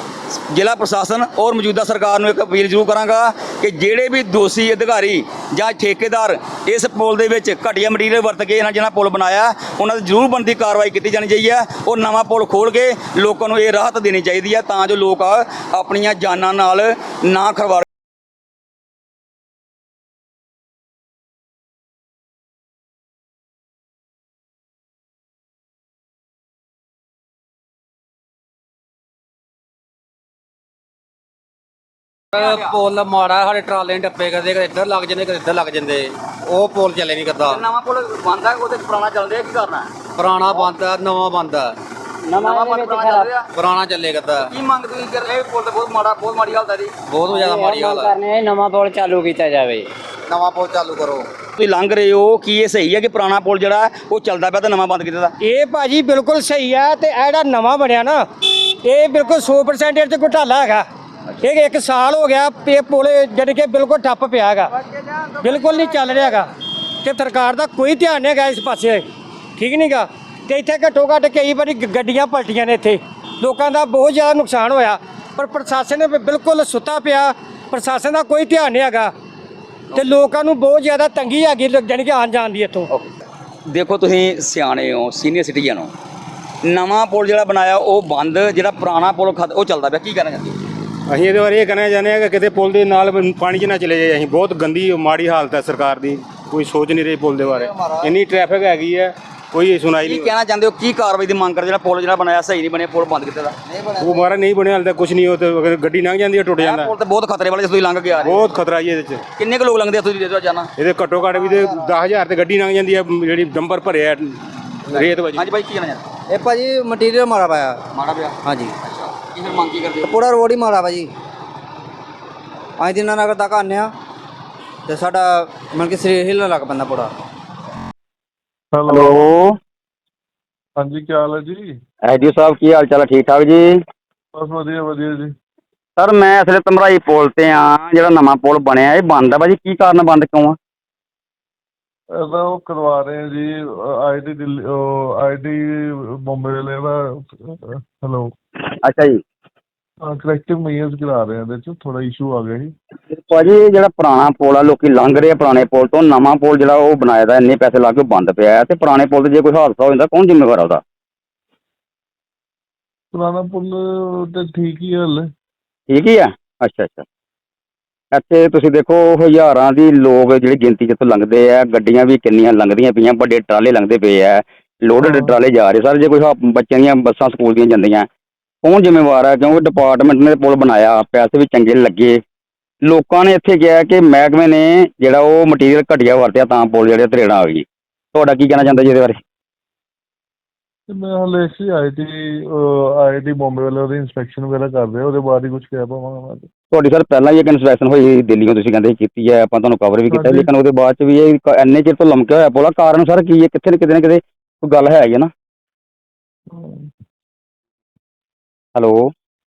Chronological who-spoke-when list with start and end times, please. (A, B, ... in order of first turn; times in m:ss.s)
0:00.5-0:17.8 A
0:32.3-0:37.6 B
0:37.5-0:39.9 A
0:40.2-0:41.7 B
0:42.3-0:43.3 C
0:42.4-0:43.4 A
0:43.5-0:44.5 B
0:44.5-0:46.9 A
0:47.1-0:48.2 B
0:47.3-0:49.8 C
0:50.3-0:51.2 B
0:51.6-0:55.3 A
0:55.4-1:00.8 D
1:01.4-1:04.7 D
1:05.3-1:06.5 D
1:07.0-1:09.0 D
1:09.6-1:19.1 D
1:19.9-1:22.9 D
1:23.7-1:25.9 A
1:26.6-1:30.6 A
1:31.1-1:40.3 E
1:40.0-1:43.6 A
1:44.0-1:46.9 E
1:46.6-1:48.6 A
1:48.2-1:49.2 E
1:49.4-1:50.7 A
1:50.8-1:54.4 E
1:54.9-1:55.4 E
1:54.9-1:56.0 A
1:56.3-1:57.8 F
1:57.9-2:00.3 A
1:58.4-1:58.7 F
2:00.0-2:01.1 F
2:02.8-2:03.9 F
2:04.9-2:07.1 F
2:08.7-2:09.3 G
2:08.9-2:09.5 A
2:10.8-2:11.7 G
2:12.0-2:13.8 A
2:14.3-2:15.3 G
2:16.0-2:20.6 A
2:22.1-2:28.3 G
2:28.8-2:29.2 A
2:30.0-2:32.7 G
2:33.1-2:40.8 A
2:43.1-2:45.3 G
2:45.9-2:47.0 A
2:48.1-2:58.1 A
2:55.0-2:55.4 G
2:58.6-3:02.2 A
3:02.8-3:09.2 A
3:10.9-3:16.5 G
3:16.7-3:25.3 A
3:20.1-3:20.5 G
3:26.5-3:26.8 G
3:28.7-3:29.1 A